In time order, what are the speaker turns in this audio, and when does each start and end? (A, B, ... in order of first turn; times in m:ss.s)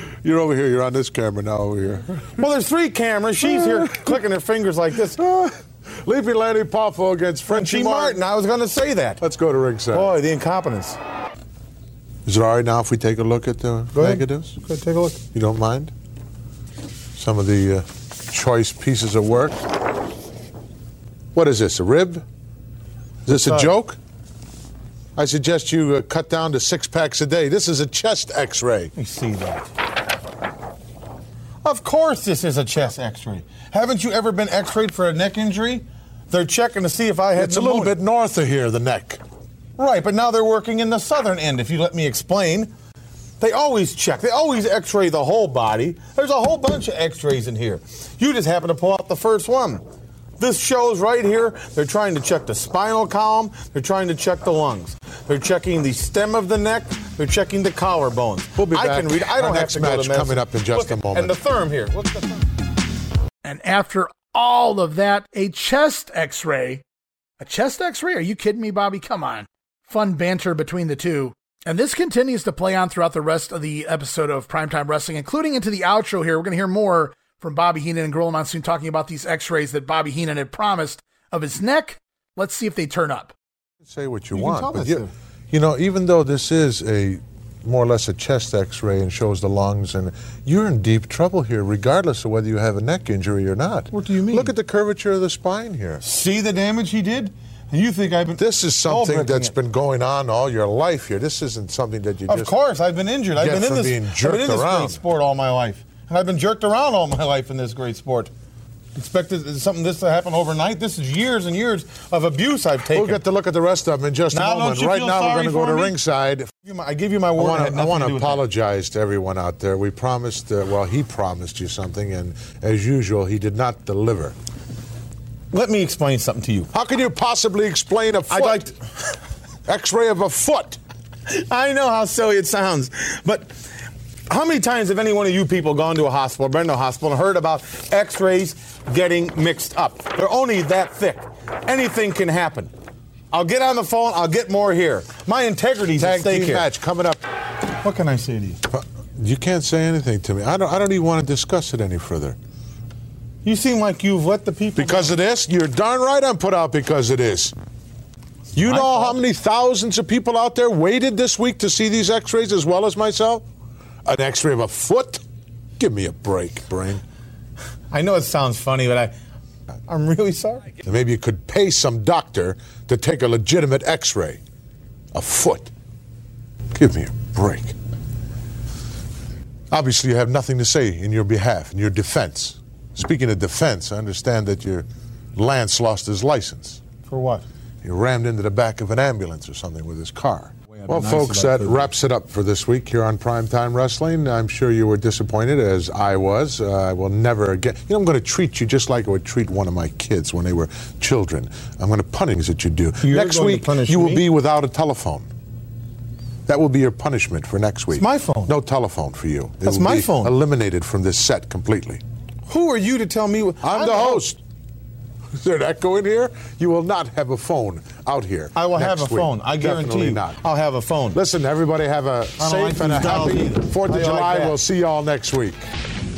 0:00.2-0:02.4 A
0:02.4-0:05.2 B
0:03.6-0:04.1 A
0:05.1-0:08.2 A
0:07.5-0:09.2 B
0:09.2-0:10.1 A
0:09.9-0:11.0 B
0:12.2-0:14.6 A
0:13.9-0:15.2 B
0:15.3-0:15.9 A
0:17.2-0:19.6 A
0:21.3-0:22.2 A
0:23.2-0:24.0 A
0:23.3-0:23.7 B
0:25.2-0:28.9 A
0:28.9-0:29.7 B
0:31.6-0:38.0 B
0:37.3-0:39.2 A
0:39.8-0:42.7 B
0:43.4-0:49.8 B
0:50.4-1:02.4 B
0:58.6-1:01.3 A
1:03.4-1:06.8 C
1:07.4-1:23.3 C
1:23.8-1:36.0 A
1:24.3-1:25.1 B
1:33.9-1:34.5 B
1:36.0-1:39.5 B
1:38.4-1:42.5 A
1:42.3-1:48.3 B
1:43.4-1:45.0 A
1:48.9-1:53.2 B
1:52.9-1:56.5 A
1:54.3-1:55.9 B
1:56.6-1:58.4 B
1:57.4-2:04.3 A
2:05.5-2:06.7 B
2:06.7-2:08.7 A
2:08.3-2:08.7 B
2:09.6-2:10.8 A
2:11.3-2:13.6 B
2:14.3-2:22.7 B
2:23.3-2:26.7 B
2:26.0-2:27.2 A
2:27.8-2:28.6 B
2:28.7-2:32.4 A
2:33.4-2:35.1 B
2:34.8-2:37.5 A
2:38.5-2:39.2 B
2:38.5-2:43.4 A
2:44.0-2:45.2 A
2:45.8-2:47.0 A
2:47.9-2:49.1 B
2:49.9-2:50.7 B
2:50.8-2:54.4 A
2:55.1-2:55.7 A
2:56.7-2:57.7 A
2:59.7-3:06.8 A
3:07.0-3:07.4 B
3:07.8-3:25.3 A
3:10.6-3:11.9 B
3:23.0-3:24.2 B
3:26.5-3:32.0 A
3:27.9-3:28.5 B
3:29.6-3:30.3 B
3:32.5-3:34.2 B
3:33.6-3:34.4 A
3:35.4-3:40.4 A
3:38.5-3:41.2 B
3:41.1-3:45.6 A
3:42.4-3:44.5 B